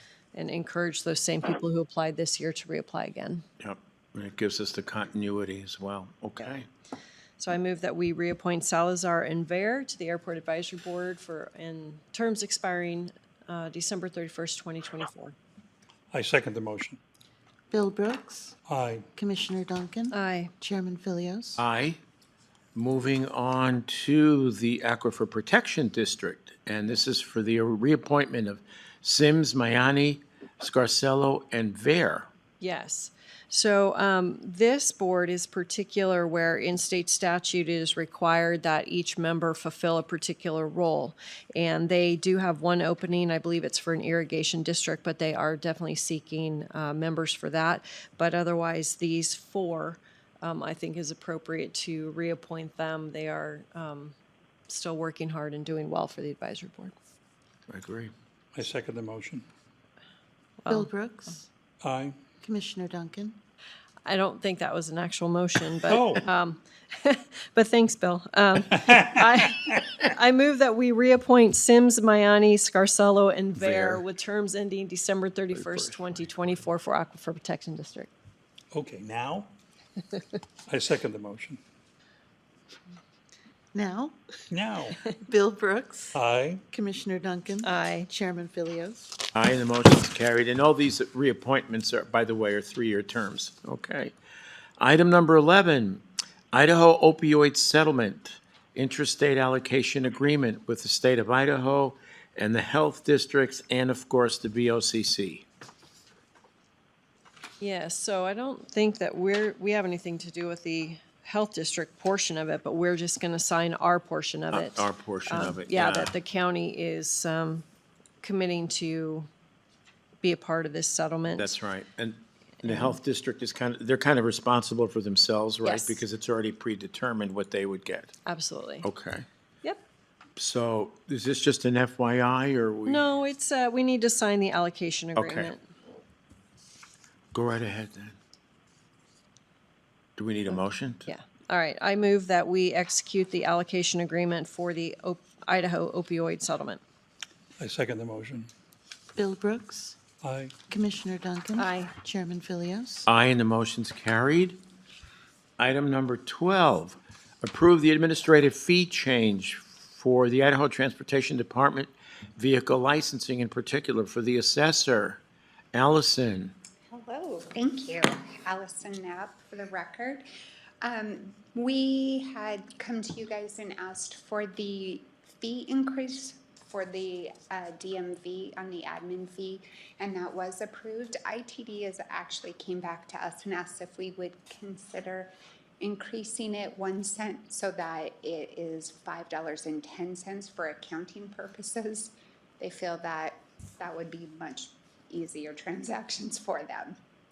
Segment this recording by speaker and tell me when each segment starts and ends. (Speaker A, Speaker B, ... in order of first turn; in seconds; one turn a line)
Speaker A: 0.3-3.4
Speaker B: 3.6-6.7
Speaker A: 7.4-15.4
Speaker C: 16.1-17.0
Speaker D: 17.7-18.6
Speaker C: 18.7-19.1
Speaker D: 19.1-21.6
Speaker A: 20.1-20.5
Speaker B: 21.6-22.0
Speaker B: 22.8-32.3
Speaker A: 32.6-54.2
Speaker A: 54.7-57.0
Speaker B: 57.7-58.1
Speaker C: 58.5-59.5
Speaker A: 60.6-60.9
Speaker D: 60.7-61.5
Speaker C: 61.8-62.2
Speaker D: 62.4-63.4
Speaker A: 64.0-78.1
Speaker C: 65.9-66.3
Speaker C: 68.9-69.5
Speaker B: 73.6-74.0
Speaker B: 75.6-76.1
Speaker C: 78.7-79.5
Speaker C: 80.7-81.6
Speaker D: 83.7-84.2
Speaker C: 84.5-85.0
Speaker D: 85.1-86.2
Speaker C: 86.1-86.6
Speaker D: 86.7-89.2
Speaker A: 87.6-88.1
Speaker B: 89.3-94.1
Speaker B: 94.8-105.5
Speaker A: 107.6-117.7
Speaker B: 114.5-116.2
Speaker A: 118.2-119.3
Speaker A: 120.2-121.5
Speaker B: 121.4-128.1
Speaker A: 125.6-126.0
Speaker A: 128.3-128.9
Speaker B: 128.8-129.3
Speaker B: 130.4-133.0
Speaker A: 132.9-135.7
Speaker B: 135.2-135.5
Speaker B: 137.3-138.2
Speaker B: 140.2-141.1
Speaker A: 141.1-146.8
Speaker C: 147.6-148.5
Speaker D: 149.2-150.0
Speaker C: 150.2-150.6
Speaker D: 150.7-153.1
Speaker A: 151.6-151.9
Speaker B: 153.1-154.6
Speaker B: 155.6-165.2
Speaker B: 165.7-166.6
Speaker E: 166.9-170.2
Speaker E: 170.8-197.0